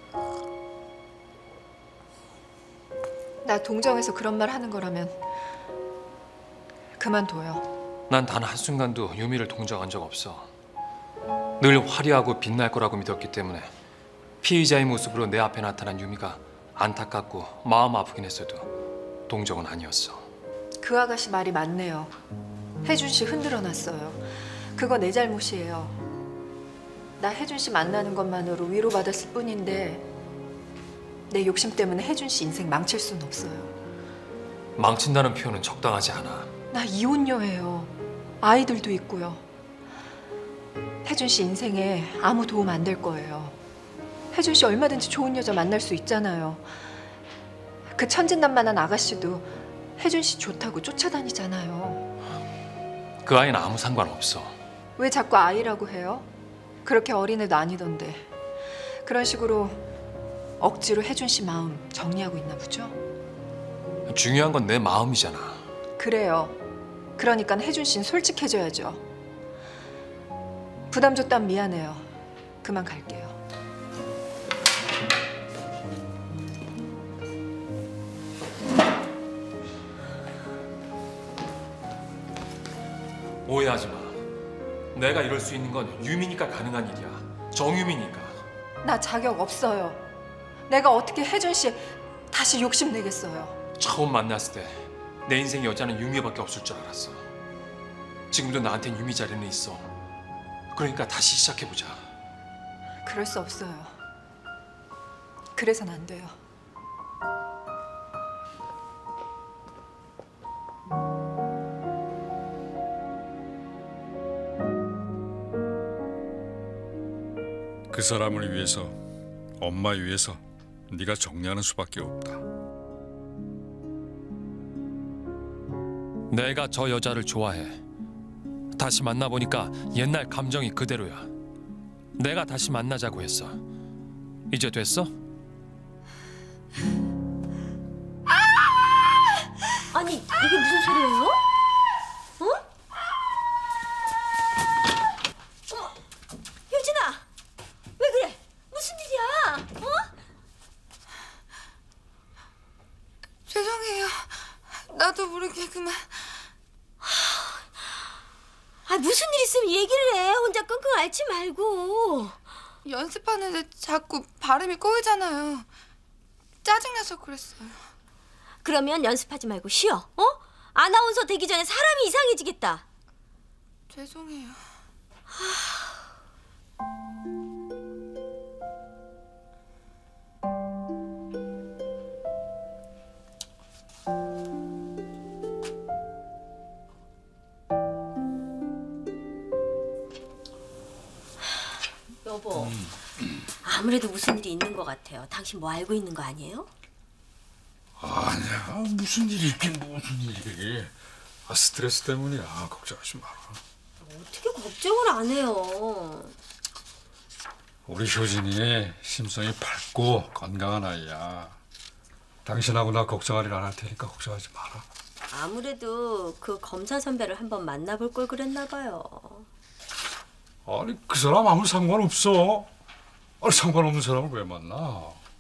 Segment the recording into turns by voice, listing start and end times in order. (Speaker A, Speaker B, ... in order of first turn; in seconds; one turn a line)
Speaker A: 3.4-5.2
Speaker A: 7.0-7.7
Speaker B: 8.1-10.5
Speaker B: 11.6-13.7
Speaker B: 14.4-18.7
Speaker B: 19.3-20.3
Speaker A: 20.8-22.1
Speaker A: 22.8-26.0
Speaker A: 27.2-30.1
Speaker A: 31.3-33.7
Speaker B: 34.8-36.5
Speaker A: 36.7-39.4
Speaker A: 41.0-43.6
Speaker A: 44.3-46.7
Speaker A: 47.9-52.0
Speaker B: 53.2-54.6
Speaker A: 55.0-56.3
Speaker A: 56.8-58.3
Speaker A: 59.0-59.8
Speaker A: 60.6-63.0
Speaker B: 64.1-65.6
Speaker A: 66.0-66.6
Speaker A: 67.2-69.0
Speaker A: 70.9-72.1
Speaker A: 72.6-73.4
Speaker B: 83.5-84.2
Speaker B: 84.9-88.4
Speaker A: 88.8-90.0
Speaker A: 90.7-93.6
Speaker B: 93.8-97.2
Speaker B: 98.3-99.9
Speaker B: 100.7-102.0
Speaker A: 103.0-103.9
Speaker A: 105.6-106.3
Speaker C: 117.9-119.0
Speaker C: 119.6-122.4
Speaker B: 126.3-127.8
Speaker B: 128.8-131.3
Speaker B: 132.2-133.6
Speaker B: 134.5-135.1
Speaker D: 139.9-141.4
Speaker D: 145.7-146.0
Speaker D: 146.7-147.2
Speaker D: 148.0-150.1
Speaker E: 153.5-156.3
Speaker D: 157.1-157.6
Speaker D: 158.9-162.4
Speaker E: 162.8-165.7
Speaker E: 166.6-167.9
Speaker D: 168.6-172.8
Speaker E: 173.9-174.6
Speaker D: 175.3-176.0
Speaker D: 192.2-192.7
Speaker C: 192.6-193.4
Speaker D: 193.6-196.7
Speaker C: 198.0-200.9
Speaker C: 201.5-203.6
Speaker D: 204.0-206.3
Speaker C: 207.9-211.6
Speaker C: 212.4-214.8
Speaker D: 215.3-219.5
Speaker C: 220.7-222.7
Speaker C: 223.4-225.2